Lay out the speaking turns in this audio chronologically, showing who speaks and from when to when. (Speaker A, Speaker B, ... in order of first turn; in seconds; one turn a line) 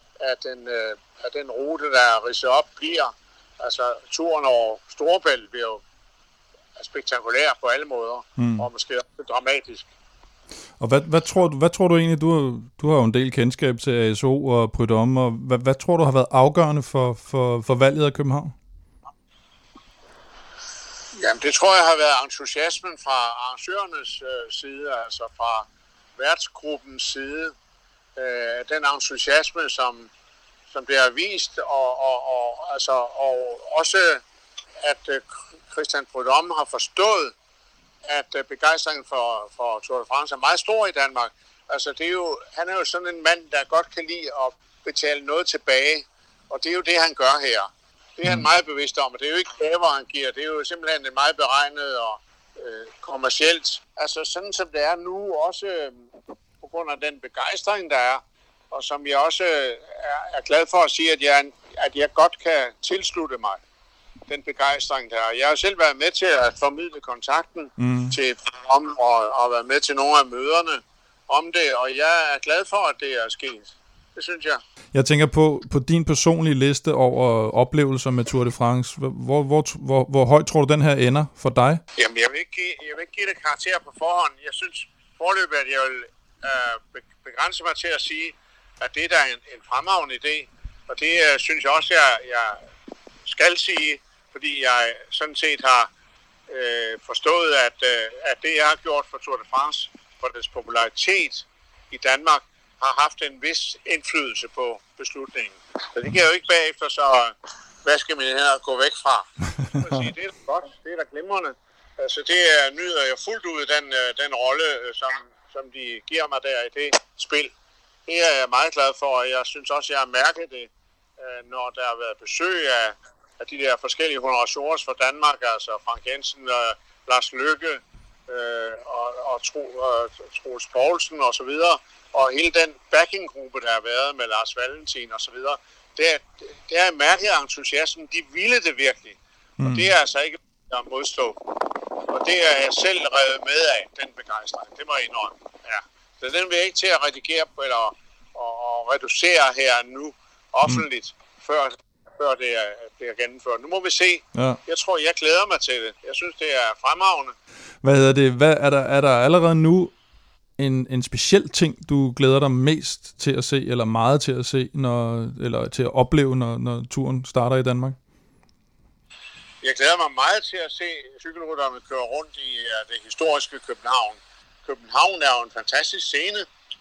Speaker A: 0.2-5.8
Speaker A: 6.8-9.8
Speaker B: 8.4-8.7
Speaker B: 10.8-18.5
Speaker A: 21.1-27.5
Speaker A: 28.2-30.1
Speaker A: 30.7-34.2
Speaker A: 34.8-37.3
Speaker A: 38.1-56.0
Speaker A: 56.6-63.6
Speaker A: 64.3-74.6
Speaker B: 67.8-68.2
Speaker B: 74.9-81.8
Speaker A: 82.0-92.6
Speaker A: 93.3-95.9
Speaker A: 96.5-107.3
Speaker A: 107.8-109.2
Speaker A: 109.8-117.5
Speaker B: 109.8-110.1
Speaker A: 118.1-157.3
Speaker B: 139.6-139.9
Speaker B: 154.3-154.6
Speaker B: 157.8-159.9
Speaker B: 160.6-168.0
Speaker A: 169.6-176.4